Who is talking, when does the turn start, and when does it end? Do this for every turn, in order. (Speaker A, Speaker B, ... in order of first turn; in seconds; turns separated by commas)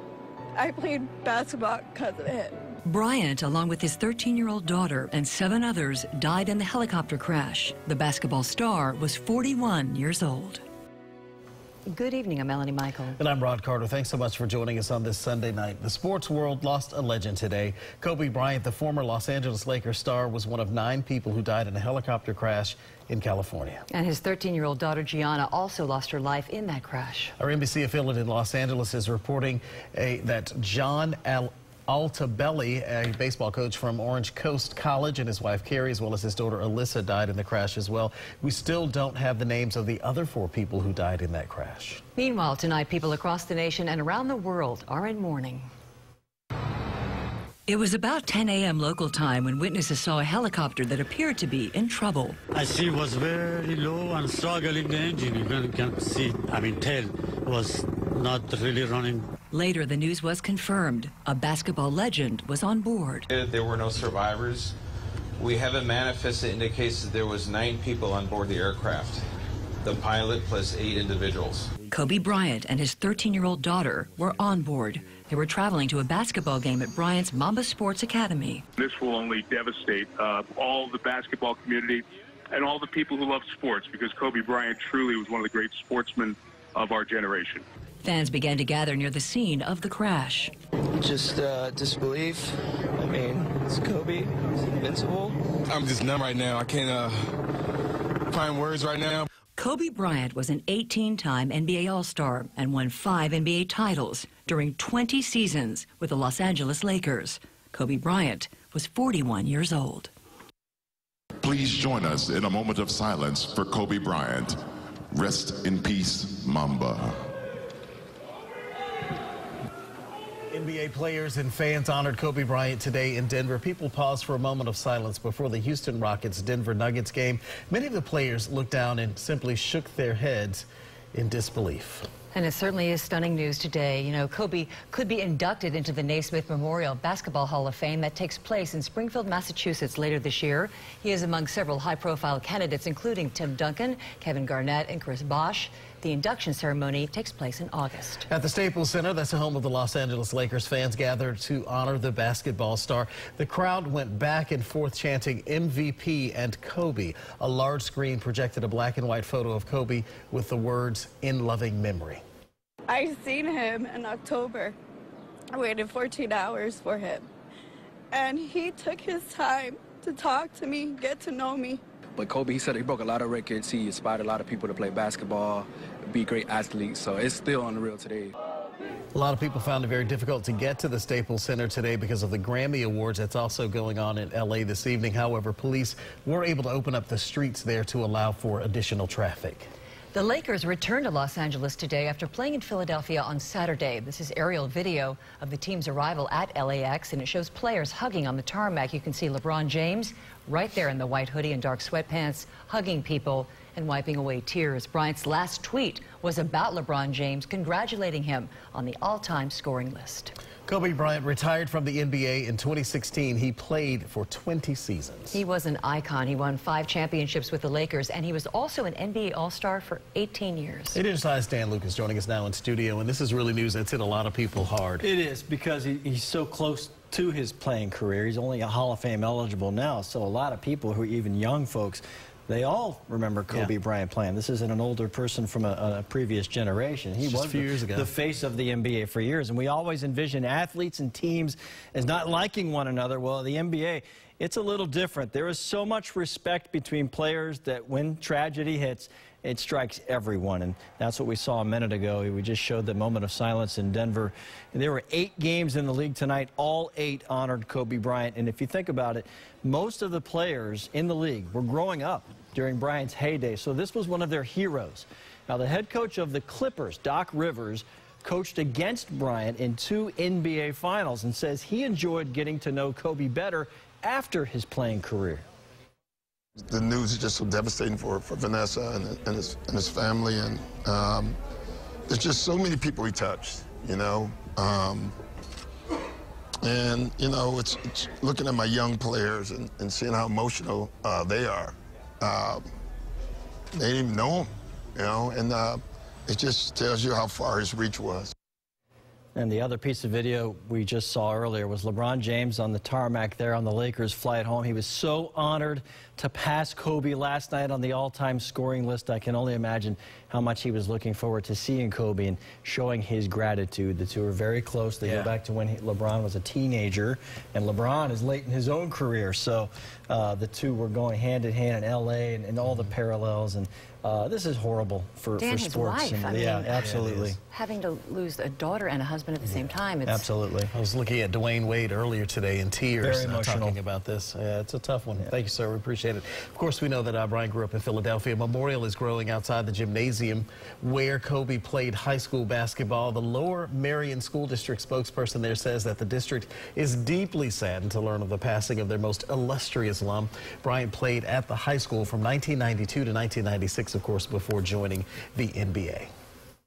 Speaker A: 0.6-2.5, Speaker B: 2.8-10.6, Speaker B: 11.9-13.2, Speaker C: 13.2-23.8, Speaker B: 23.9-27.3, Speaker C: 27.4-42.0, Speaker B: 42.2-45.7, Speaker B: 47.7-52.4, Speaker D: 52.5-59.3, Speaker B: 59.5-63.3, Speaker E: 63.3-64.7, Speaker E: 65.4-69.2, Speaker E: 69.8-71.7, Speaker B: 71.9-78.6, Speaker F: 78.8-87.6, Speaker B: 88.0-90.5, Speaker G: 91.0-95.4, Speaker H: 95.7-97.3, Speaker H: 98.3-99.3, Speaker B: 99.6-110.1, Speaker I: 111.4-114.6, Speaker I: 115.1-117.2, Speaker C: 120.5-132.1, Speaker B: 132.3-148.3, Speaker C: 148.3-162.2, Speaker A: 162.9-164.8, Speaker A: 165.5-167.3, Speaker A: 168.1-171.8, Speaker J: 172.2-178.3, Speaker C: 179.1-189.7, Speaker B: 190.1-210.3, Speaker C: 210.7-215.4, Speaker B: 215.3-221.0, Speaker C: 220.9-225.1, Speaker K: 225.0-275.4, Speaker C: 237.2-238.1, Speaker L: 276.7-281.4, Speaker L: 282.1-285.1, Speaker L: 286.6-292.6, Speaker L: 293.8-298.3, Speaker K: 299.4-327.4, Speaker C: 315.0-315.3, Speaker B: 325.4-326.9, Speaker C: 326.7-327.3, Speaker B: 327.4-330.3, Speaker K: 330.1-330.7, Speaker C: 330.7-356.1, Speaker K: 333.0-333.8